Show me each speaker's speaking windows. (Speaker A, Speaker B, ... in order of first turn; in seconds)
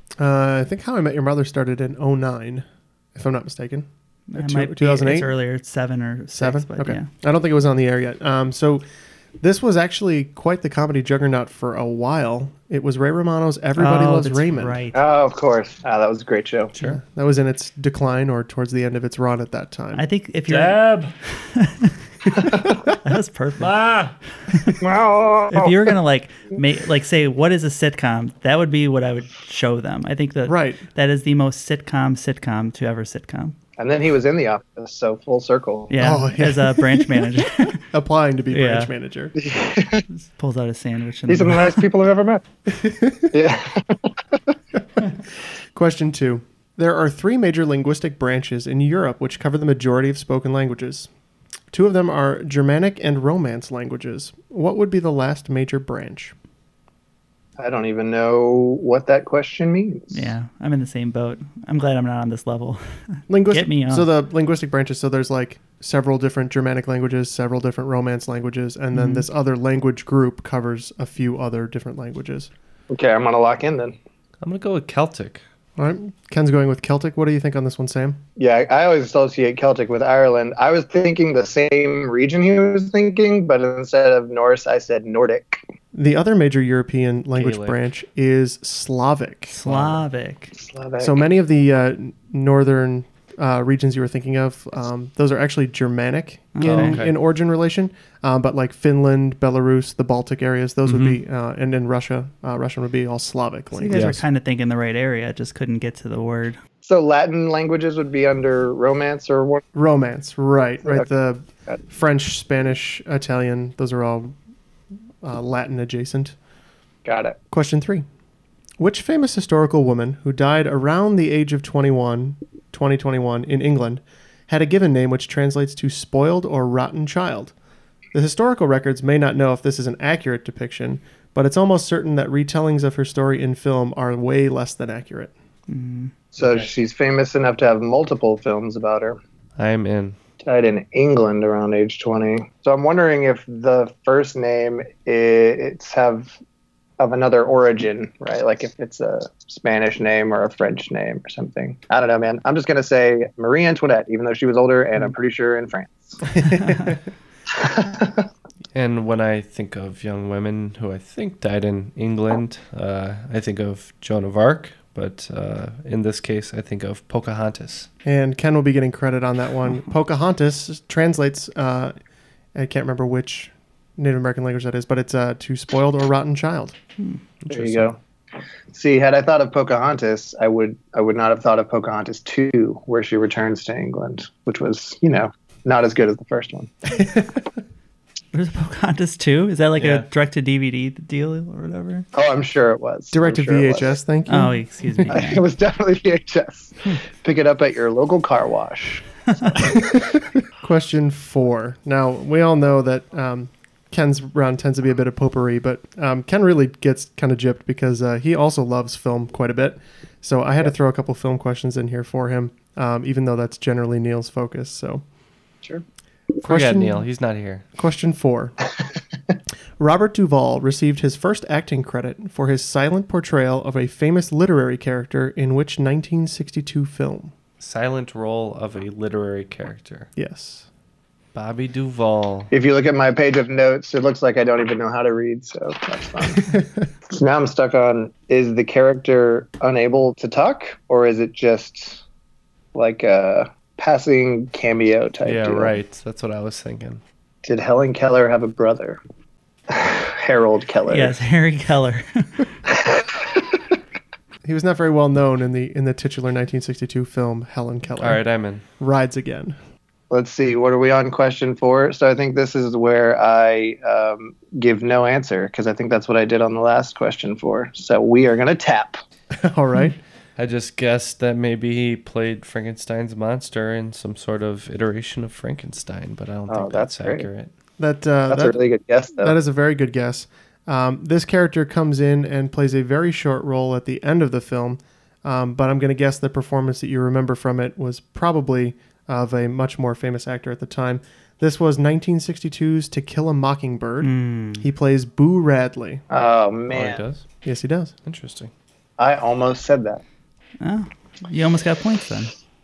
Speaker A: 0.2-5.3, 6.4-8.8, 9.4-14.8, 16.8-20.0, 30.4-30.8, 36.0-39.4, 42.7-43.3, 45.7-51.1, 51.7-56.3, 63.3-72.5, 75.8-78.2, 85.9-89.5, 91.0-104.1, 109.7-114.3, 115.2-116.4, 117.5-118.0, 118.8-127.5, 128.1-135.3, 156.4-156.9, 168.0-171.9, 172.6-176.8, 187.0-187.4, 193.1-195.1, 199.7-215.0, 216.4-217.1, 217.8-218.5, 219.8-227.3, 230.2-230.7, 236.5-236.9, 254.4-258.2, 258.8-259.6, 269.3-270.0, 277.8-278.6, 279.2-296.0, 297.4-297.9
Speaker B: 4.3-7.1, 13.8-15.0, 19.9-20.9, 21.4-22.0, 23.0-23.8, 24.5-24.8, 25.5-33.5, 35.9-37.8, 38.5-38.9, 40.1-41.8, 60.1-64.1, 68.9-69.3, 89.5-90.5, 96.5-97.0, 103.7-106.6, 135.7-136.1, 156.5-156.9, 188.3-192.1, 194.3-195.4, 250.9-252.5, 294.0-294.7, 300.6-302.3
Speaker C: 14.9-16.7, 24.8-25.9, 33.8-35.9, 39.4-40.0, 41.3-42.4, 43.3-44.1, 57.6-60.3, 72.9-74.0, 78.4-85.6, 90.5-91.2, 106.8-109.7, 117.0-117.4, 136.3-139.2, 140.4-146.4, 147.0-156.3, 157.5-158.3, 177.5-178.0, 178.7-186.7, 192.1-194.0, 195.1-200.0, 232.5-236.5, 237.1-242.0, 242.7-245.7, 247.4-249.0, 249.7-251.2, 252.7-253.4, 260.1-269.0, 276.5-277.3, 278.3-279.4, 296.1-297.0, 299.0-300.0
Speaker D: 20.5-21.1, 23.6-24.1, 74.4-75.4, 87.3-87.8, 89.6-90.0, 96.6-97.2, 100.9-101.2, 103.9-104.2, 139.6-140.2, 158.7-167.9, 177.4-177.9, 189.8-190.1, 216.4-217.6, 227.6-230.1, 231.3-232.5, 245.2-247.0, 258.0-258.6, 270.4-277.5, 296.7-297.3, 298.1-298.5